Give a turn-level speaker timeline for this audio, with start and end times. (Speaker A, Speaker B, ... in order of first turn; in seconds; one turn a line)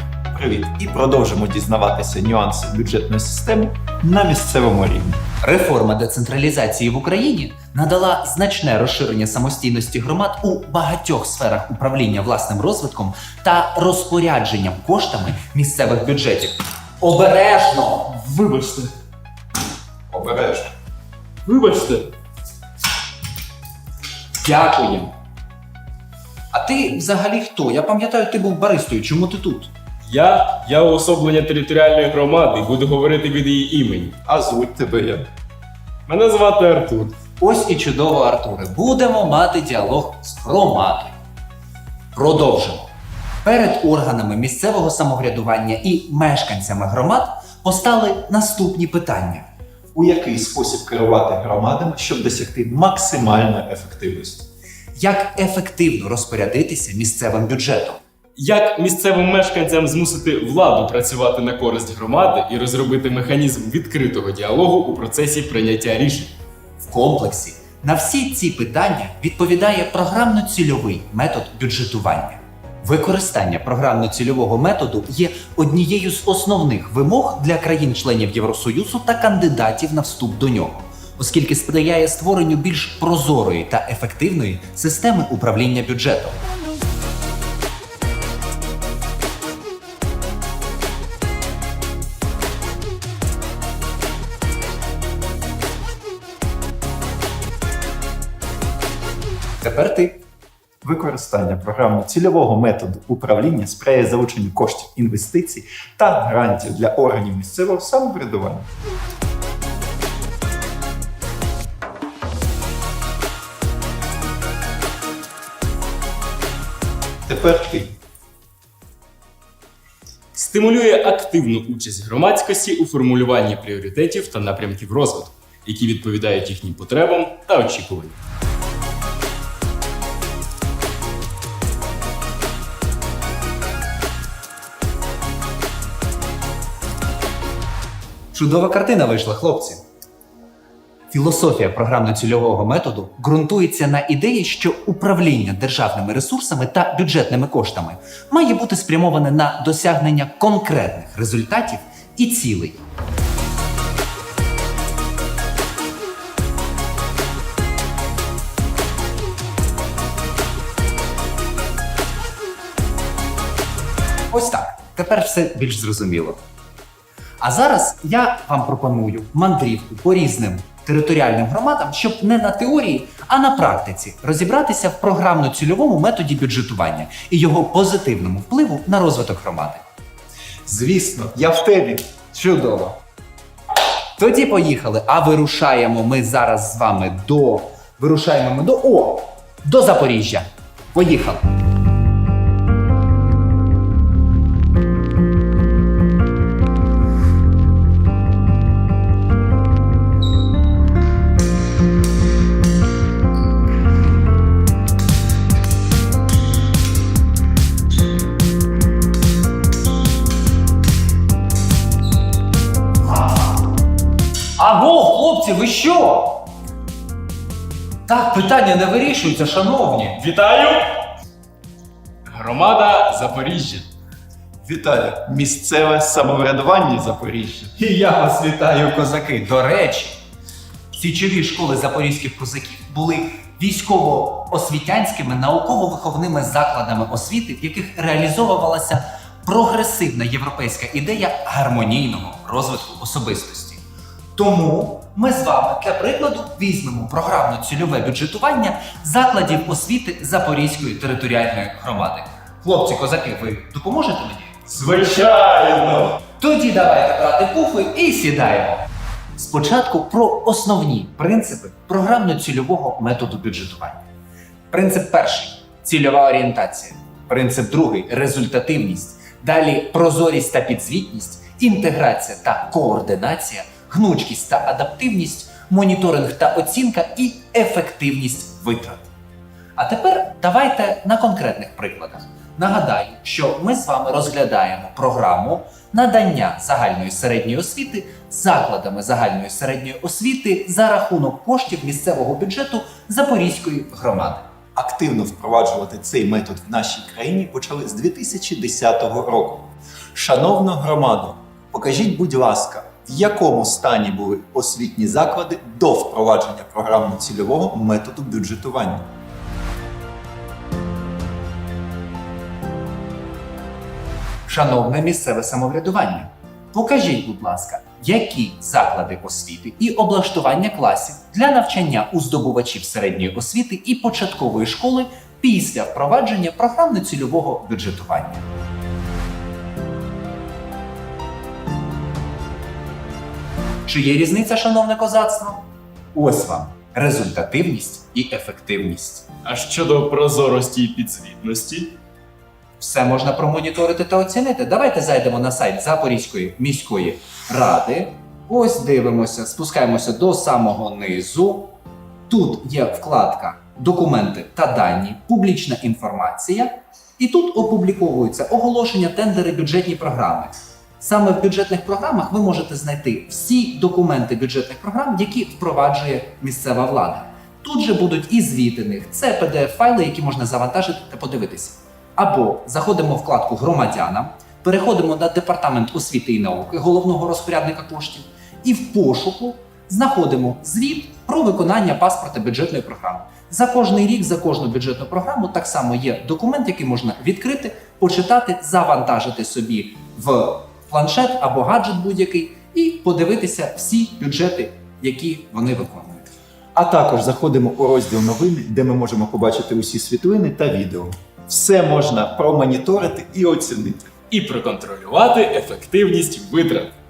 Speaker A: 0.3-5.2
Speaker B: 5.4-18.3
Speaker C: 18.2-18.9
Speaker A: 20.1-20.7
Speaker C: 21.4-22.1
Speaker B: 24.4-25.1
Speaker B: 26.5-29.7
Speaker C: 30.1-34.1
Speaker A: 34.2-35.3
Speaker C: 36.1-37.1
Speaker B: 37.4-41.1
Speaker B: 42.1-42.9
Speaker B: 43.4-49.5
Speaker A: 49.9-54.5
Speaker B: 55.0-58.0
Speaker C: 58.4-66.3
Speaker B: 66.8-86.4
Speaker B: 99.6-100.2
Speaker A: 100.8-108.7
Speaker A: 117.2-117.9
Speaker C: 120.3-128.2
Speaker B: 138.3-139.8
Speaker B: 141.1-152.8
Speaker B: 164.3-166.4
Speaker B: 167.4-179.8
Speaker A: 180.7-182.1
Speaker B: 182.3-183.0
Speaker B: 184.2-191.4
Speaker B: 214.6-216.4
Speaker B: 218.1-220.2
Speaker C: 220.2-220.9
Speaker C: 222.3-223.9
Speaker A: 224.6-227.8
Speaker B: 227.8-230.2
Speaker B: 230.9-243.8
Speaker B: 244.3-254.6
Speaker C: 254.7-256.1
Speaker B: 256.4-258.8
Speaker B: 259.4-264.0
Speaker B: 264.7-279.1
Speaker B: 279.8-294.4
Speaker A: 294.8-309.1
Speaker B: 314.4-328.4
Speaker B: 333.9-339.3
Speaker C: 339.4-341.9
Speaker B: 342.8-351.8
Speaker B: 352.3-396.3
Speaker A: 396.7-404.1
Speaker C: 404.3-406.9